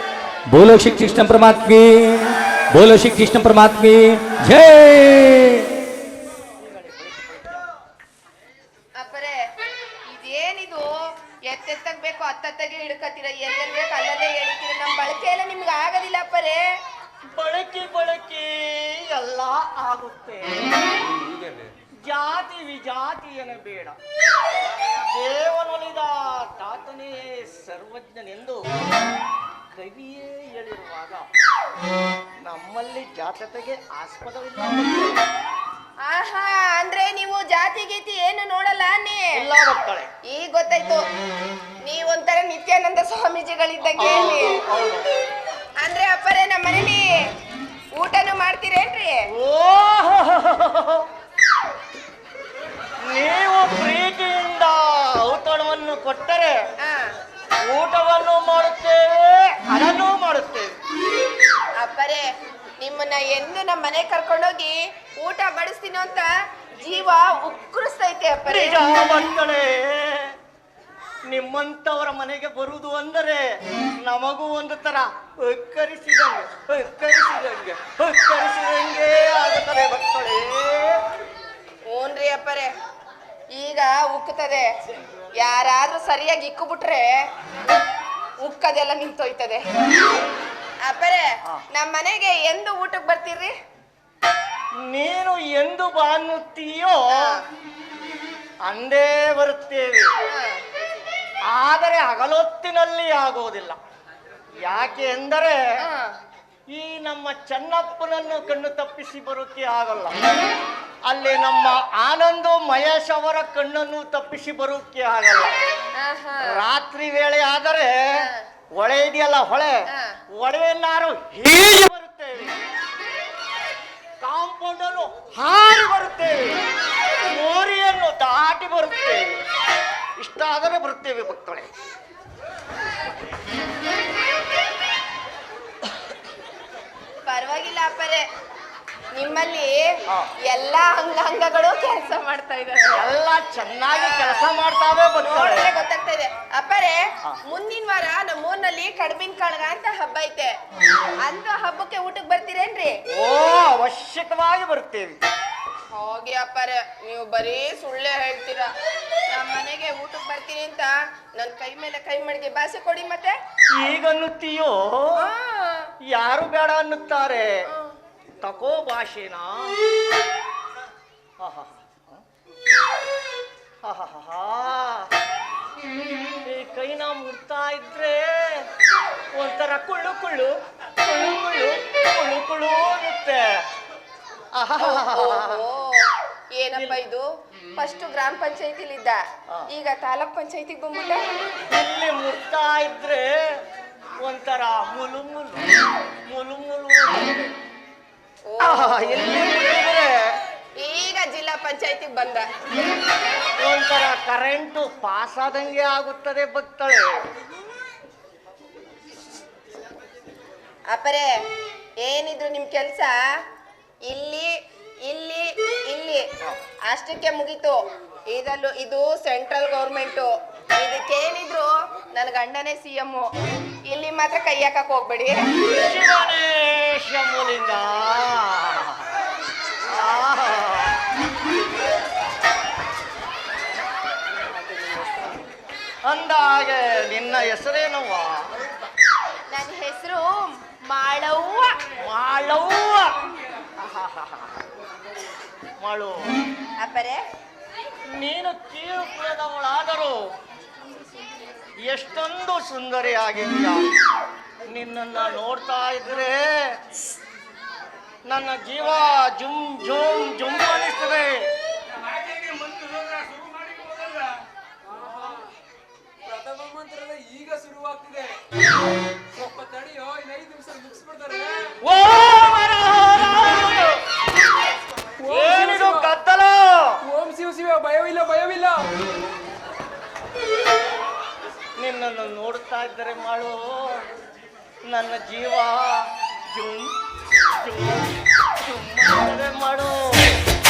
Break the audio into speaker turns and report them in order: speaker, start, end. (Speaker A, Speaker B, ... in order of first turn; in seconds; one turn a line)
Speaker A: 0.5-5.7
Speaker B: 6.6-7.7
Speaker C: 9.0-9.4
Speaker C: 10.1-10.9
Speaker C: 11.5-16.7
Speaker B: 17.3-20.8
Speaker D: 20.9-21.7
Speaker B: 22.0-24.0
Speaker B: 24.7-28.8
Speaker B: 29.7-31.3
Speaker B: 32.4-35.2
Speaker C: 36.0-39.4
Speaker B: 39.4-40.1
Speaker C: 40.2-41.0
Speaker C: 41.8-44.6
Speaker B: 44.0-45.0
Speaker C: 45.8-47.1
Speaker C: 47.9-49.2
Speaker B: 49.3-51.1
Speaker B: 53.0-56.7
Speaker C: 56.8-57.1
Speaker B: 57.6-60.8
Speaker C: 61.8-62.2
Speaker C: 62.8-68.8
Speaker B: 68.5-70.3
Speaker B: 71.3-73.5
Speaker B: 74.0-81.0
Speaker C: 81.9-82.7
Speaker C: 83.5-84.7
Speaker C: 85.4-87.1
Speaker C: 88.4-89.6
Speaker C: 90.8-93.5
Speaker B: 94.8-97.4
Speaker C: 97.1-97.4
Speaker B: 98.6-100.1
Speaker C: 100.2-100.6
Speaker B: 101.5-103.8
Speaker B: 104.6-105.6
Speaker C: 105.8-106.2
Speaker B: 106.7-110.3
Speaker B: 111.0-115.6
Speaker C: 116.0-116.6
Speaker B: 116.4-122.5
Speaker C: 118.2-118.4
Speaker C: 119.9-120.2
Speaker B: 124.2-126.6
Speaker B: 127.2-129.3
Speaker B: 130.2-131.7
Speaker C: 137.2-138.2
Speaker C: 139.1-139.9
Speaker C: 140.4-143.1
Speaker B: 142.9-145.6
Speaker C: 143.9-144.4
Speaker C: 145.2-150.5
Speaker C: 151.2-152.9
Speaker B: 153.1-155.2
Speaker C: 155.9-158.7
Speaker C: 159.3-163.3
Speaker B: 163.8-165.2
Speaker C: 165.2-165.9
Speaker B: 166.1-167.5
Speaker B: 168.4-169.7
Speaker B: 171.4-172.2
Speaker B: 173.8-175.1
Speaker B: 176.5-178.7
Speaker B: 179.3-183.7
Speaker B: 184.5-185.6
Speaker C: 184.8-186.0
Speaker C: 186.6-187.2
Speaker C: 187.8-189.2
Speaker C: 189.7-191.2
Speaker B: 191.7-193.3
Speaker B: 194.2-195.8
Speaker B: 196.3-197.5
Speaker C: 198.5-199.2
Speaker B: 198.6-200.3
Speaker C: 200.8-202.5
Speaker B: 203.6-207.2
Speaker C: 210.9-211.3
Speaker C: 212.0-213.2
Speaker C: 214.1-214.5
Speaker C: 215.1-216.2
Speaker C: 216.9-217.8
Speaker C: 218.3-223.3
Speaker C: 223.9-225.4
Speaker B: 225.7-229.0
Speaker B: 229.8-231.0
Speaker B: 234.3-235.4
Speaker B: 236.0-238.5
Speaker C: 239.5-241.8
Speaker B: 242.0-243.2
Speaker B: 243.8-244.6
Speaker B: 245.8-246.3
Speaker C: 246.8-247.2
Speaker B: 248.1-250.2
Speaker B: 251.8-253.9
Speaker B: 254.7-256.8
Speaker B: 258.3-261.5
Speaker E: 261.9-264.4
Speaker D: 264.8-265.5
Speaker D: 266.2-268.4
Speaker D: 269.3-271.7
Speaker B: 271.8-274.0
Speaker D: 275.2-276.1
Speaker B: 275.3-277.0
Speaker D: 277.0-278.9
Speaker B: 281.8-284.1
Speaker B: 284.9-286.9
Speaker B: 287.5-290.2